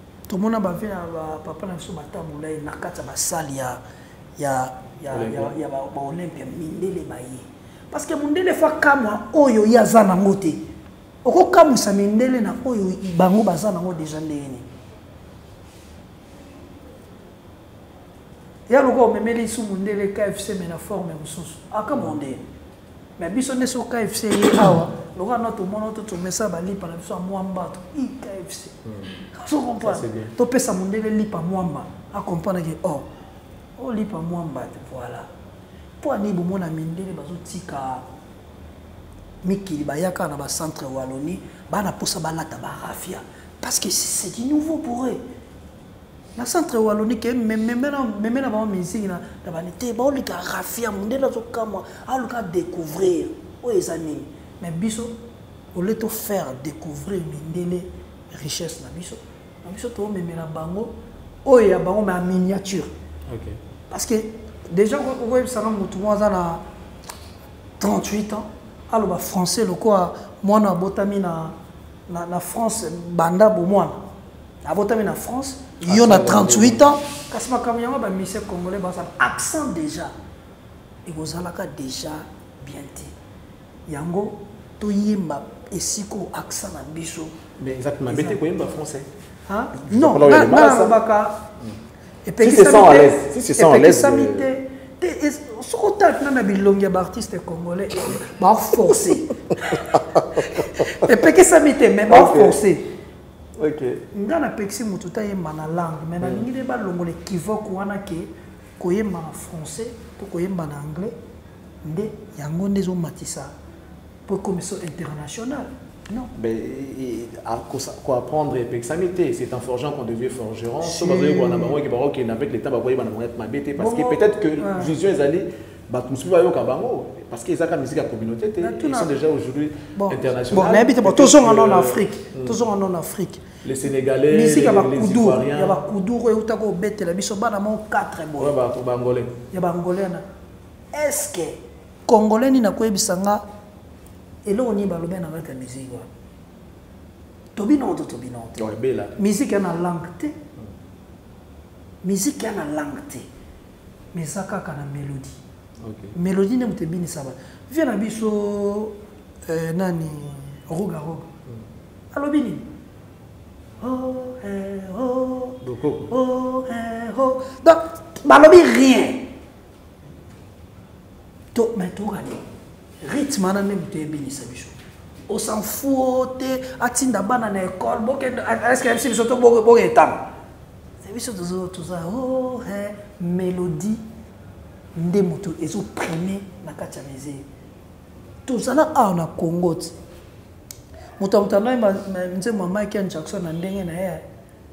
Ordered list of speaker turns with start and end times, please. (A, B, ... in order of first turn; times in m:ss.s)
0:00.3-0:03.8 A
0:04.4-0:10.6 A
0:05.1-0:05.5 B
0:11.2-0:14.7 A
0:18.7-0:22.4 A
0:23.2-0:28.8 A
0:28.9-0:29.2 B
0:29.3-0:33.1 A
0:29.8-0:30.3 B
0:33.8-0:35.3 A
0:36.0-0:38.0 A
0:39.4-0:45.2 A
0:46.4-0:55.1 A
0:55.8-1:00.9 A
1:01.4-1:02.9 A
1:03.3-1:03.6 B
1:03.9-1:06.6 A
1:07.8-1:11.6 A
1:12.1-1:14.0 A
1:14.6-1:20.1 A
1:15.8-1:16.9 B
1:21.1-1:23.1 A
1:23.9-1:27.4 A
1:27.6-1:29.1 B
1:28.1-1:28.4 A
1:29.5-1:31.5 A
1:29.8-1:31.0 B
1:32.3-1:42.9 A
1:32.4-1:34.5 B
1:39.7-1:41.0 B
1:42.1-1:42.6 B
1:43.6-1:44.0 B
1:44.1-1:51.1 A
1:46.2-1:46.5 B
1:51.8-1:53.5 A
1:54.3-1:56.3 A
1:56.3-2:12.6 B
2:00.8-2:01.8 A
2:03.8-2:04.9 A
2:08.6-2:09.1 A
2:10.0-2:13.4 A
2:13.6-2:15.8 B
2:14.3-2:18.6 A
2:18.4-2:19.4 B
2:19.5-2:20.2 A
2:20.9-2:23.4 A
2:24.4-2:26.1 A
2:27.6-2:30.4 A
2:28.6-2:29.2 B
2:32.0-2:33.3 A
2:34.1-2:35.4 A
2:35.8-2:36.2 B
2:36.1-2:41.3 A
2:42.1-2:42.7 A
2:43.8-2:49.3 A
2:45.6-2:46.1 B
2:51.5-2:52.4 A
2:53.0-2:54.7 A
2:55.3-3:00.2 A
3:01.0-3:04.0 A
3:05.0-3:07.4 A
3:08.5-3:10.0 A
3:11.2-3:14.2 A